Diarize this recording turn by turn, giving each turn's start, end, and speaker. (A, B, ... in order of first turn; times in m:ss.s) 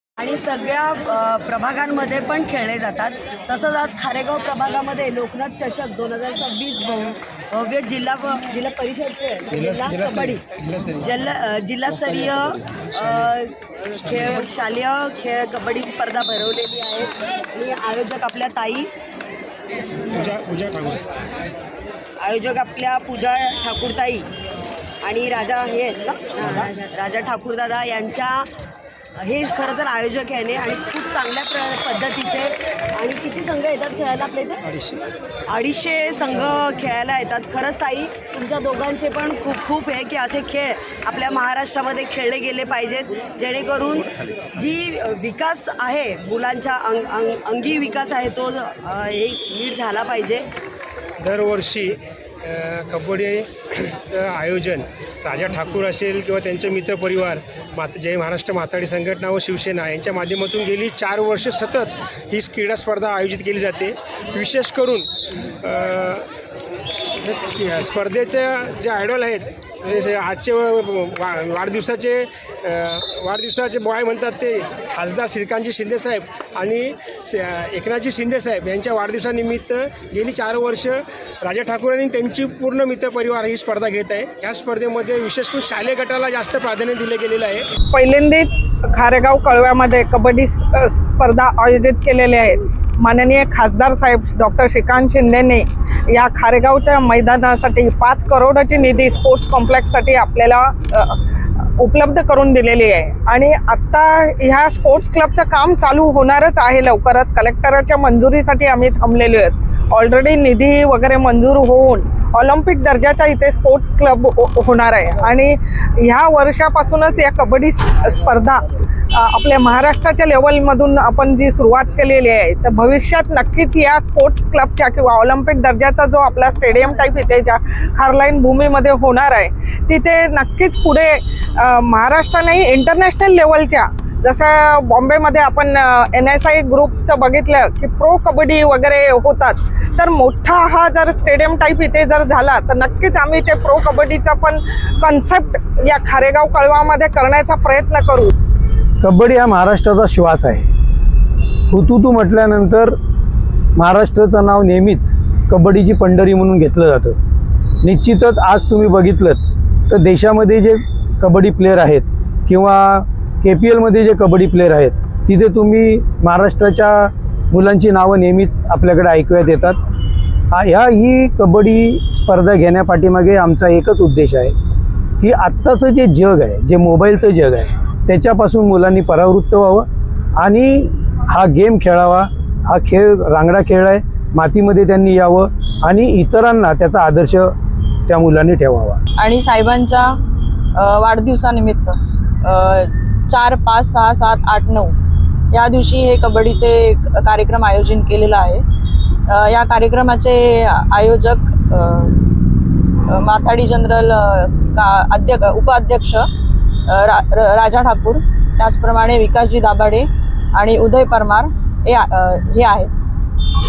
0:00.2-0:10.4 A
0:09.5-0:11.0 B
0:11.0-0:18.9 A
0:20.1-0:21.1 B
0:22.2-0:24.3 A
0:25.0-0:28.5 A
0:29.2-0:50.5 A
0:51.2-1:06.3 B
1:07.2-1:27.7 B
1:27.9-2:28.3 C
2:29.0-2:30.7 D
2:31.7-2:33.0 D
2:33.8-2:37.2 D
2:37.8-2:49.8 D
2:50.5-2:54.6 D
2:55.2-3:07.5 D
3:08.1-3:09.0 D
3:09.2-3:10.1 E
3:10.8-3:15.0 E
3:15.5-3:18.6 E
3:19.3-3:22.2 E
3:23.1-3:26.3 E
3:26.9-3:32.9 E